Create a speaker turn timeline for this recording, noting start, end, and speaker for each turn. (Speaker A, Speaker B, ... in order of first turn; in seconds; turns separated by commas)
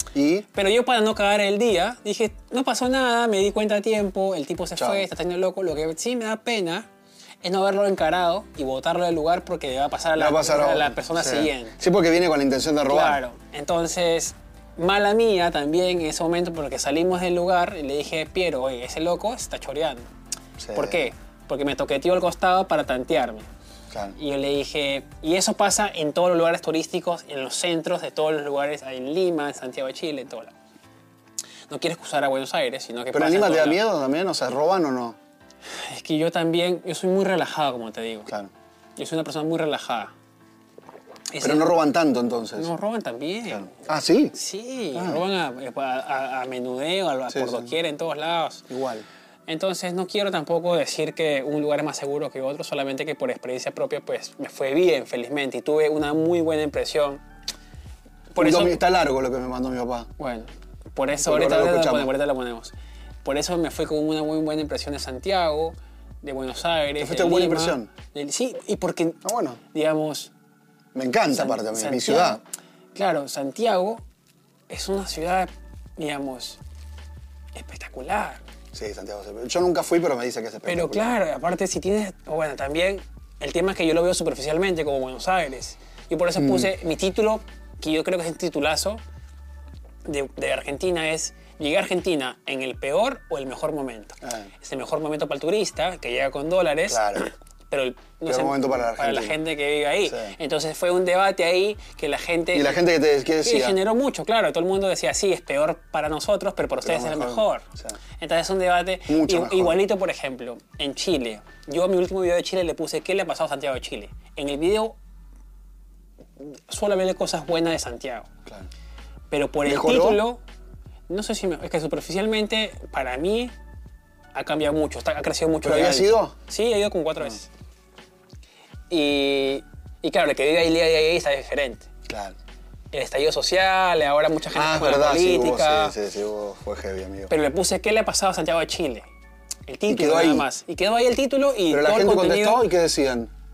Speaker A: 0.1-0.5, Speaker B: 0.5-6.9, Speaker A: 4.8-5.0, Speaker B: 7.4-11.8, Speaker A: 10.2-13.2, Speaker B: 12.9-20.1, Speaker A: 20.6-21.1, Speaker B: 20.7-23.5, Speaker A: 23.9-24.1, Speaker B: 24.1-30.5, Speaker B: 31.7-33.8, Speaker A: 33.1-35.2, Speaker B: 35.8-38.3, Speaker B: 39.0-40.1, Speaker B: 41.3-41.7, Speaker A: 41.4-42.7, Speaker B: 42.6-43.7, Speaker A: 43.5-44.3, Speaker B: 44.3-48.7, Speaker A: 44.9-45.2, Speaker A: 47.3-47.7, Speaker A: 48.7-49.0, Speaker B: 49.5-57.2, Speaker B: 58.3-58.8, Speaker A: 58.4-60.1, Speaker B: 60.2-62.7, Speaker A: 61.2-62.1, Speaker B: 63.2-70.3, Speaker A: 67.0-67.9, Speaker A: 69.2-69.6, Speaker A: 70.9-72.4, Speaker B: 71.3-72.4, Speaker B: 72.9-74.0, Speaker B: 74.7-76.6, Speaker B: 77.5-78.4, Speaker A: 78.7-81.1, Speaker B: 80.6-89.0, Speaker A: 86.4-86.7, Speaker B: 90.0-102.8, Speaker A: 94.2-94.5, Speaker A: 96.9-97.2, Speaker A: 98.2-99.4, Speaker A: 100.0-100.3, Speaker A: 102.5-103.8, Speaker B: 103.4-107.7, Speaker A: 106.8-108.0, Speaker B: 108.2-115.0, Speaker A: 109.1-109.8, Speaker B: 116.4-118.3, Speaker B: 119.3-120.4, Speaker A: 119.6-120.2, Speaker B: 121.1-123.5, Speaker B: 124.3-127.5, Speaker A: 125.6-126.3, Speaker B: 128.9-131.9, Speaker A: 132.1-132.3, Speaker B: 132.9-135.9, Speaker A: 134.5-137.3, Speaker B: 137.3-139.1, Speaker B: 139.7-142.7, Speaker A: 139.9-140.5, Speaker A: 141.7-143.3